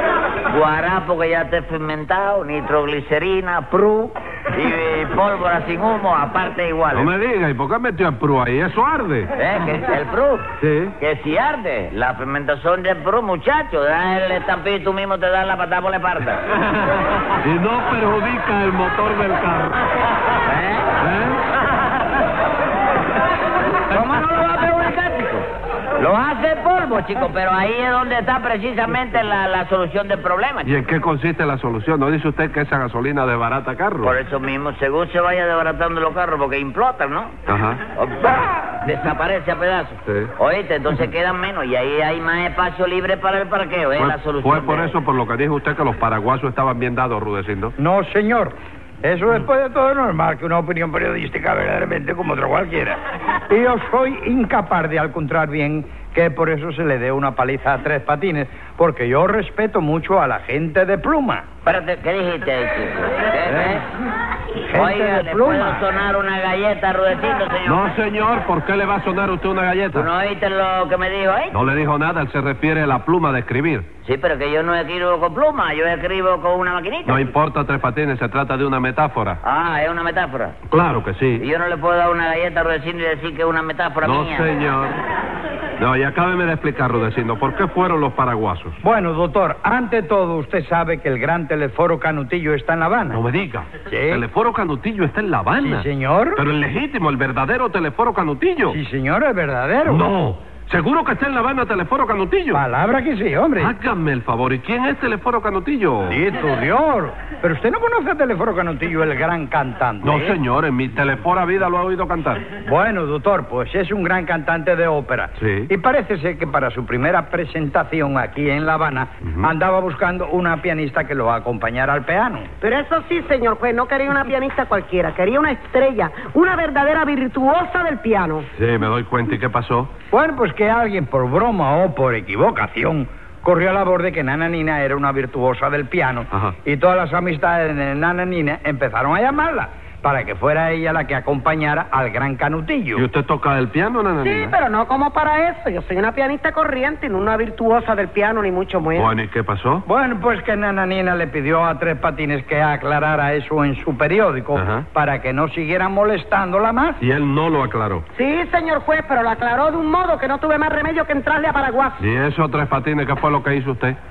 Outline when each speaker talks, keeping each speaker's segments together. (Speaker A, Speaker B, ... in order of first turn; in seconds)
Speaker A: 0.5-7.1, 9.3-16.4, 20.4-20.9, 23.9-25.5, 26.0-30.9, 34.0-37.3, 38.0-44.9, 61.6-63.8, 64.7-67.9, 69.9-71.6, 74.0-77.3, 79.4-80.5, 81.4-84.5
Speaker B: 6.9-9.3, 10.6-10.9, 16.6-19.9, 21.0-21.4, 30.6-34.1, 37.5-37.8, 40.1-40.3, 44.0-47.7, 63.5-63.8, 67.6-70.1, 71.5-73.9, 77.0-79.4, 80.7-81.4, 84.0-85.0, 85.8-88.8, 93.1-98.8, 99.8-102.6, 103.6-106.2, 110.0-112.4, 115.4-115.7, 119.2-119.5, 128.6-129.9, 142.9-144.5, 148.9-149.8, 154.5-154.8, 157.0-158.1, 162.0-164.0
Speaker C: 47.8-53.0, 53.5-61.4, 64.6-65.8, 88.8-93.2, 93.9-94.2, 95.6-96.4, 98.7-100.1, 102.5-103.7, 106.1-110.4, 112.6-122.5, 130.1-143.0, 149.8-157.0
Speaker D: 122.6-128.5, 144.2-149.1, 158.2-162.1